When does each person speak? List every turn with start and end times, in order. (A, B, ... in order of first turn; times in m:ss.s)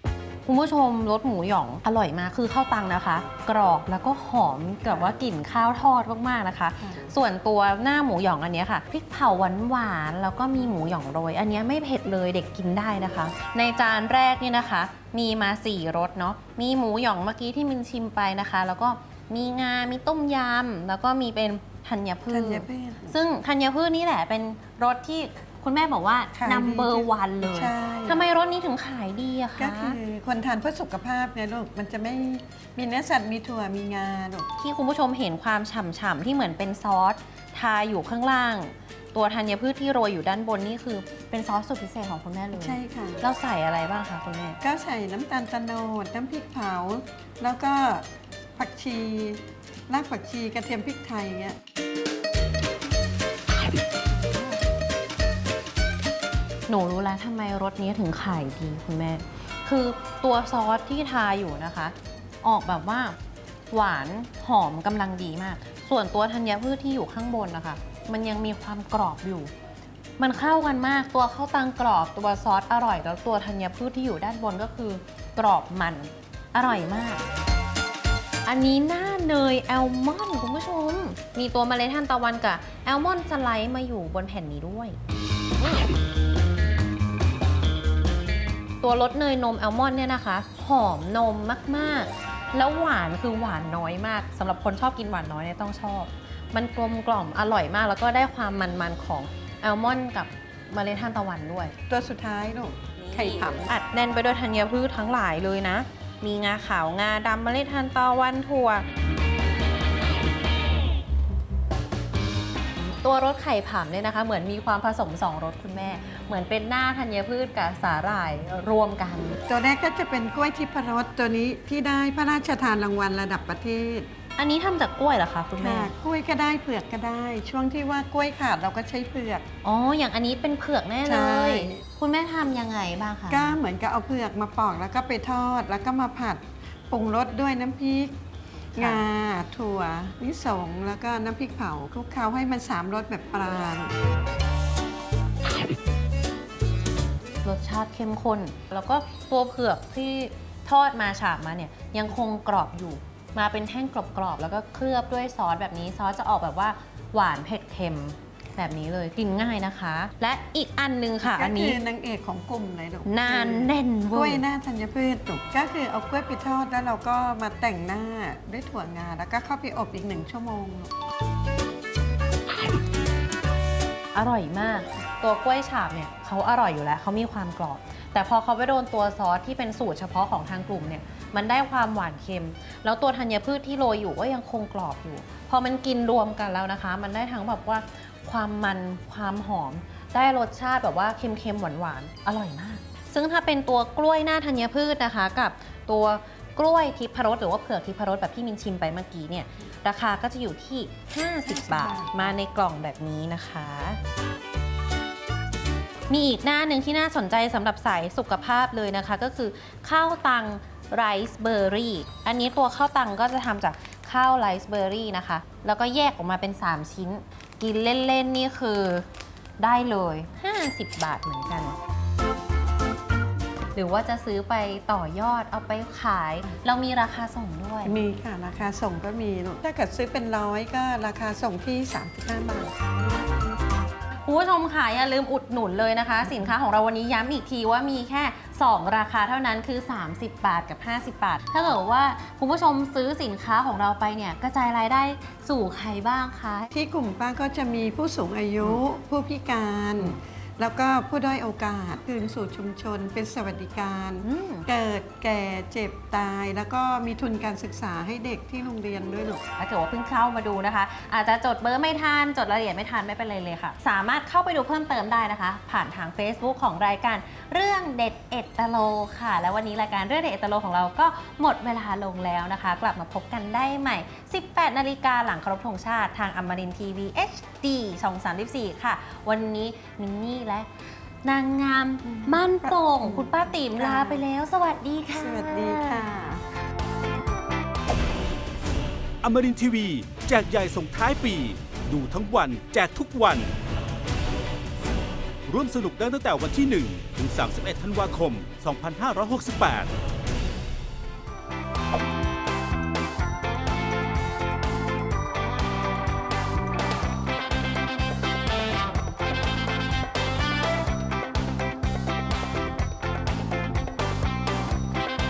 0:00.4-0:30.0 A
0:06.8-0:07.1 B
0:22.3-0:23.1 B
0:26.3-0:28.2 B
0:29.6-0:34.5 B
0:34.6-0:44.6 A
0:42.6-0:43.2 B
0:44.6-0:51.6 B
0:56.7-1:03.2 A
1:03.7-1:09.5 A
1:10.2-1:17.2 A
1:18.4-1:25.0 A
1:25.6-1:25.9 A
1:28.8-1:41.7 A
1:41.9-1:43.7 B
1:43.0-1:48.8 A
1:52.8-1:59.4 A
1:59.5-2:04.1 B
2:04.4-2:05.9 A
2:05.6-2:09.4 B
2:09.6-2:13.6 A
2:11.0-2:11.8 B
2:13.3-2:18.1 B
2:18.7-2:23.9 B
2:18.8-2:19.0 A
2:27.4-2:41.8 A
2:41.2-2:50.9 B
2:43.0-2:44.4 A
2:54.1-3:24.0 A
3:21.4-3:22.3 B
3:26.1-3:39.1 A
3:39.6-3:41.7 A
3:43.7-3:47.9 A
3:47.8-3:52.7 B
3:54.2-4:06.7 A
4:06.7-4:19.4 B
4:14.2-4:14.7 A
4:19.6-4:40.7 A
4:41.2-4:46.0 A
4:42.0-4:44.2 B
4:45.1-4:46.4 B
4:49.2-4:53.5 C
4:55.5-4:59.9 C